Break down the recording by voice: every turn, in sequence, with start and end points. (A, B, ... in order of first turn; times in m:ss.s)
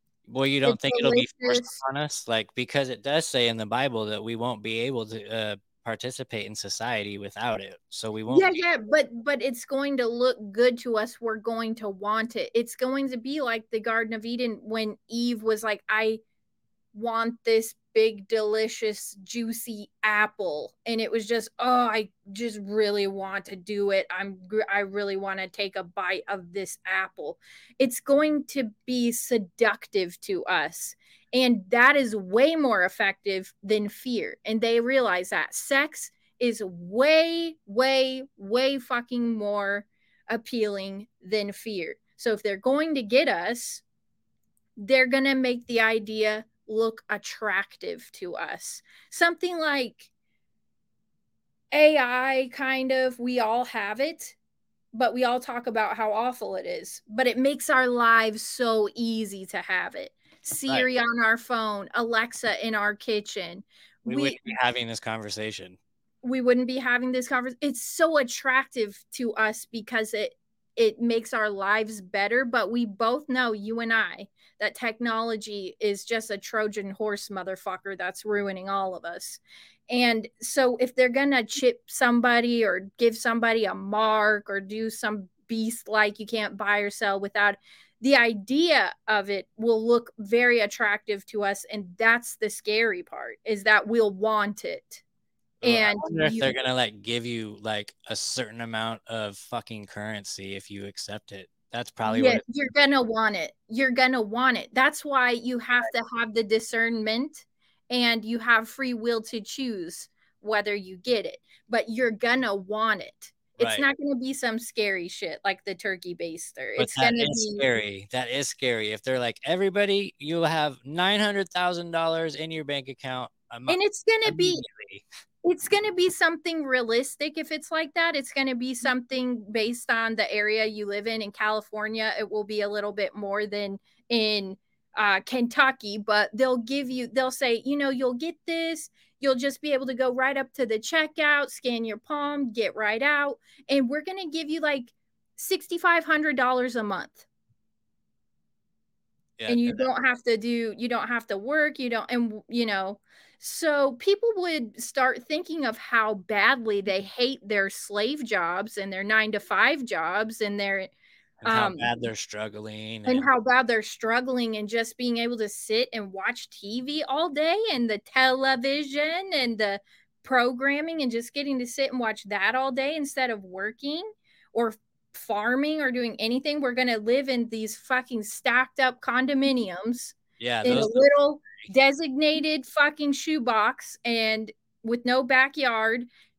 0:00.2-0:08.6 A
0:00.6-0:01.8 B
0:08.3-0:16.2 B
0:16.9-0:43.8 B
0:44.8-0:50.1 B
0:51.7-0:54.4 B
0:54.9-1:04.5 B
1:04.0-1:05.8 A
1:06.2-1:35.0 B
1:35.6-1:42.4 A
1:35.6-1:36.5 B
1:42.0-1:57.6 B
1:53.6-1:53.8 A
1:56.8-2:05.0 A
2:03.7-2:04.6 B
2:05.4-2:27.2 B
2:29.4-2:29.9 A
2:29.5-2:40.9 B
2:41.4-2:43.3 A
2:41.4-2:41.9 B
2:43.0-3:06.1 B
3:00.4-3:01.1 A